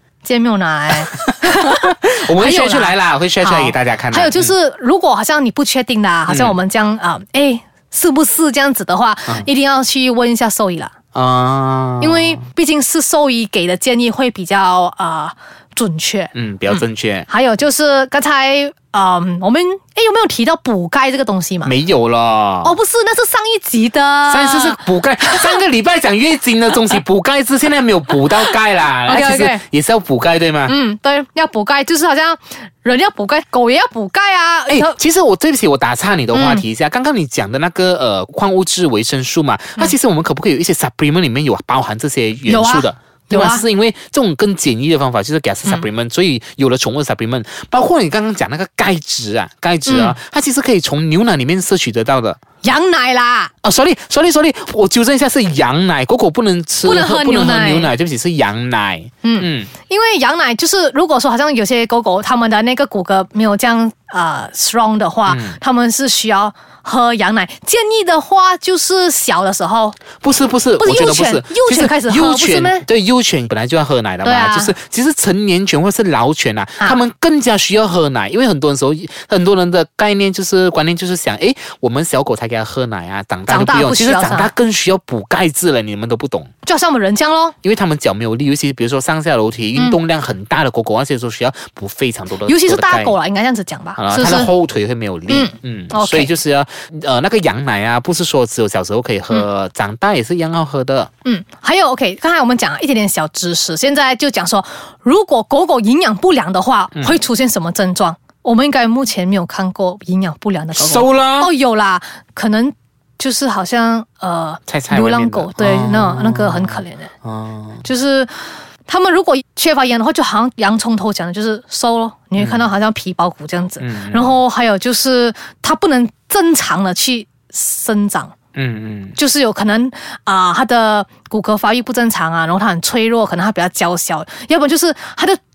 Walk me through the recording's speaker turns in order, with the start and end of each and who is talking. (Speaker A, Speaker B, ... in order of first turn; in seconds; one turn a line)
Speaker A: 0.2-10.9
Speaker B: 1.1-4.5
Speaker B: 6.3-6.6
Speaker B: 11.1-12.4
Speaker A: 12.0-21.7
Speaker B: 16.3-17.3
Speaker B: 21.6-22.8
Speaker A: 22.6-25.6
Speaker B: 24.3-30.8
Speaker A: 29.1-29.6
Speaker A: 30.7-35.0
Speaker B: 34.7-52.4
Speaker A: 36.3-36.6
Speaker A: 42.5-43.6
Speaker A: 49.9-50.2
Speaker A: 52.6-53.5
Speaker B: 53.6-59.7
Speaker A: 56.8-57.9
Speaker A: 59.2-70.0
Speaker B: 65.3-65.6
Speaker B: 70.2-86.5
Speaker A: 70.8-72.9
Speaker A: 74.2-74.7
Speaker A: 83.5-84.5
Speaker A: 86.7-87.6
Speaker B: 87.6-93.2
Speaker A: 92.5-94.5
Speaker B: 94.0-101.1
Speaker A: 95.3-96.3
Speaker A: 101.2-117.1
Speaker B: 107.0-107.2
Speaker B: 110.7-111.5
Speaker B: 114.7-117.8
Speaker A: 117.8-128.3
Speaker B: 122.4-122.7
Speaker B: 123.8-124.3
Speaker B: 128.6-129.2
Speaker A: 129.2-135.4